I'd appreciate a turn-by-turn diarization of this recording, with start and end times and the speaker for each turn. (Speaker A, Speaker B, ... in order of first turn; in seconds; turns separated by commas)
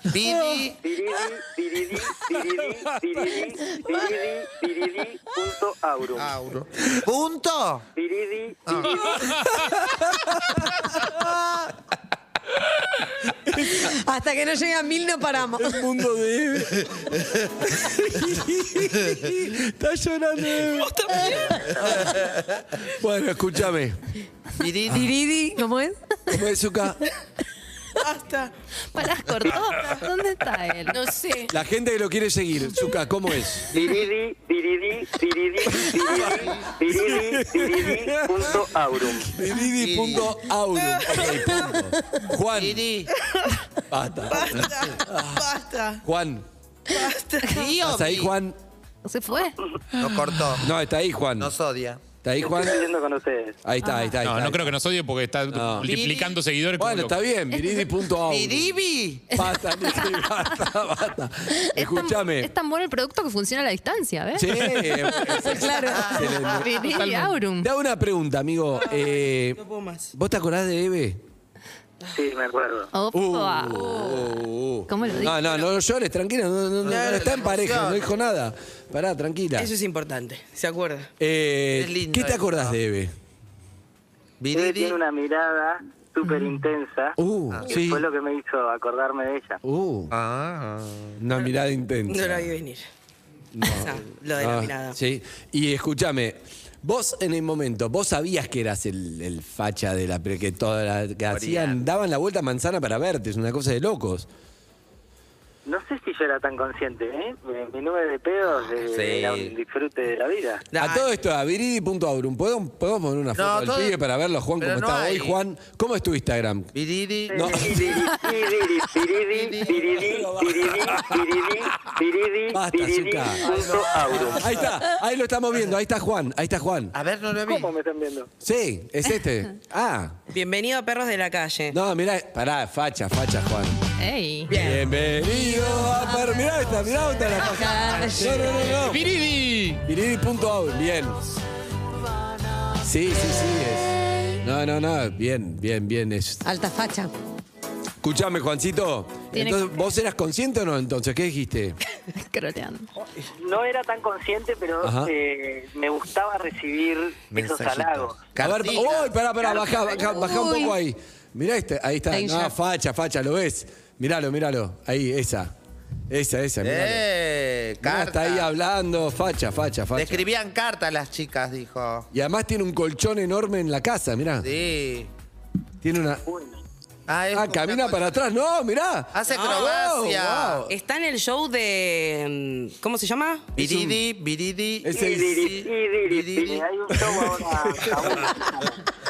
Speaker A: 0.1-0.8, Speaker B: 0.2-0.6, Speaker C: 0.8-6.3, Speaker B: 2.4-3.5, Speaker A: 6.2-7.9, Speaker C: 8.0-9.2, Speaker A: 8.7-9.2, Speaker D: 9.1-9.6, Speaker B: 9.3-11.3, Speaker B: 13.5-13.9, Speaker E: 13.8-15.8, Speaker B: 15.6-22.2, Speaker F: 20.6-21.6, Speaker E: 21.3-21.5, Speaker A: 21.9-22.6, Speaker B: 22.9-24.0, Speaker A: 24.6-25.1, Speaker E: 24.9-26.0, Speaker B: 26.3-27.0, Speaker F: 28.0-28.5, Speaker G: 28.9-31.0, Speaker F: 30.9-31.5, Speaker B: 31.5-33.7, Speaker A: 33.7-34.1, Speaker C: 33.7-39.4, Speaker B: 35.7-42.9, Speaker A: 36.2-36.7, Speaker A: 39.8-40.4, Speaker F: 40.9-41.4, Speaker A: 42.5-43.1, Speaker B: 43.9-45.5, Speaker F: 44.3-46.0, Speaker B: 46.0-46.5, Speaker F: 46.9-47.7, Speaker A: 47.5-48.3, Speaker B: 47.8-48.6, Speaker G: 49.0-49.6, Speaker A: 50.0-50.7, Speaker B: 50.6-51.5, Speaker A: 51.4-52.0, Speaker B: 52.2-52.9, Speaker C: 52.4-53.6, Speaker B: 53.6-54.8, Speaker G: 53.8-54.2, Speaker D: 54.2-57.2, Speaker B: 55.5-56.0, Speaker A: 55.9-56.4, Speaker B: 56.8-58.7, Speaker G: 57.5-57.9, Speaker A: 58.2-59.3, Speaker B: 59.3-62.5, Speaker G: 59.4-60.3, Speaker G: 61.7-64.7, Speaker B: 64.3-66.9, Speaker E: 65.3-66.2, Speaker A: 65.9-66.4, Speaker G: 66.3-67.7, Speaker D: 66.9-67.4, Speaker B: 67.6-69.6, Speaker F: 68.9-70.1, Speaker B: 70.1-71.2, Speaker C: 72.1-72.9, Speaker G: 72.9-74.2, Speaker B: 73.1-79.7, Speaker G: 74.9-75.6, Speaker A: 76.8-78.2, Speaker F: 76.9-77.5, Speaker F: 79.6-81.1, Speaker B: 81.2-83.1, Speaker A: 81.7-82.8, Speaker A: 84.4-85.0, Speaker C: 84.5-87.2, Speaker B: 87.2-88.0, Speaker A: 87.5-87.9, Speaker C: 87.7-89.6, Speaker B: 89.6-90.1, Speaker A: 90.1-91.2, Speaker B: 91.2-92.5, Speaker F: 92.1-92.9, Speaker B: 93.5-104.3, Speaker F: 93.7-95.0, Speaker A: 101.3-101.8, Speaker C: 105.7-110.7, Speaker A: 108.8-109.5, Speaker F: 110.7-111.1, Speaker B: 110.8-116.7, Speaker A: 113.3-114.0, Speaker A: 114.6-115.4, Speaker A: 116.8-118.1, Speaker C: 117.3-124.6, Speaker B: 117.3-118.0, Speaker A: 119.3-120.2, Speaker B: 119.8-121.9, Speaker B: 122.5-127.0, Speaker A: 123.4-124.6, Speaker A: 126.9-127.7, Speaker C: 127.4-128.3, Speaker B: 128.4-130.2, Speaker F: 130.3-131.8, Speaker B: 131.7-133.8, Speaker G: 134.0-134.5, Speaker A: 134.5-134.9, Speaker B: 134.5-139.1, Speaker E: 137.3-138.8, Speaker D: 138.7-139.8, Speaker B: 139.8-141.3, Speaker B: 142.8-146.5, Speaker E: 146.4-147.1, Speaker B: 148.0-151.8, Speaker G: 149.3-149.8, Speaker G: 152.2-152.9, Speaker C: 153.4-158.3, Speaker B: 154.8-155.1, Speaker A: 157.3-159.2, Speaker B: 158.4-165.5, Speaker C: 159.4-160.2, Speaker E: 160.1-160.8, Speaker E: 162.1-162.5, Speaker B: 166.1-167.1, Speaker A: 166.6-168.5, Speaker B: 167.8-170.3, Speaker A: 169.9-172.1, Speaker B: 172.1-174.5, Speaker A: 174.4-175.1, Speaker B: 175.8-176.2, Speaker C: 176.3-176.6, Speaker A: 177.1-178.2, Speaker B: 177.3-180.7, Speaker A: 179.1-180.7, Speaker F: 179.3-179.7, Speaker F: 180.7-183.6, Speaker B: 183.6-184.0, Speaker A: 183.6-186.7, Speaker B: 184.8-185.4, Speaker C: 184.9-188.8, Speaker B: 186.9-188.3, Speaker A: 187.9-188.3